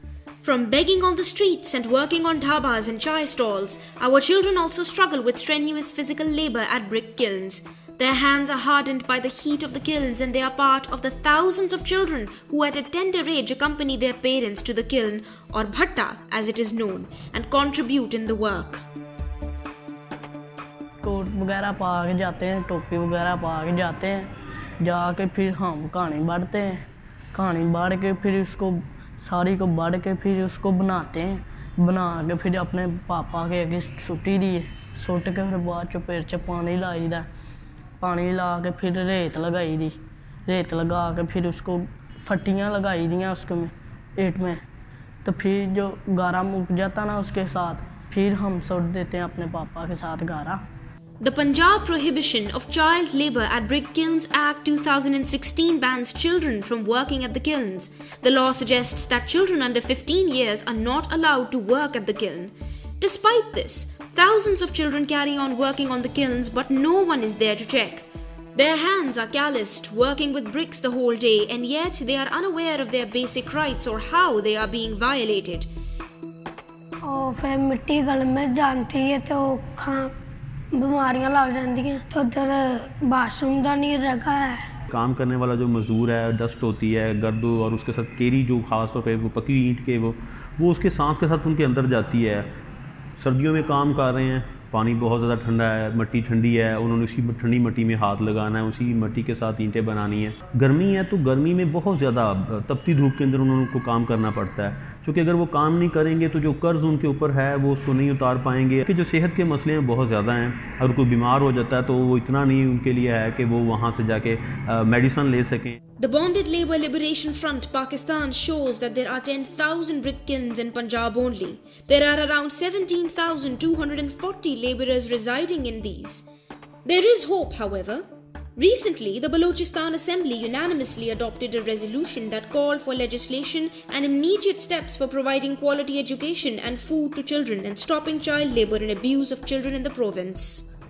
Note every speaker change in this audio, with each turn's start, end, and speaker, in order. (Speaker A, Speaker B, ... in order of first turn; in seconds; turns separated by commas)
Speaker A: 0.4-18.8, Speaker B: 21.0-37.3, Speaker B: 38.0-44.6, Speaker B: 45.2-50.6, Speaker A: 51.2-75.7, Speaker C: 77.0-80.1, Speaker C: 80.8-84.7, Speaker D: 84.9-92.5, Speaker D: 93.2-115.8, Speaker A: 116.0-126.2, Speaker A: 126.8-140.7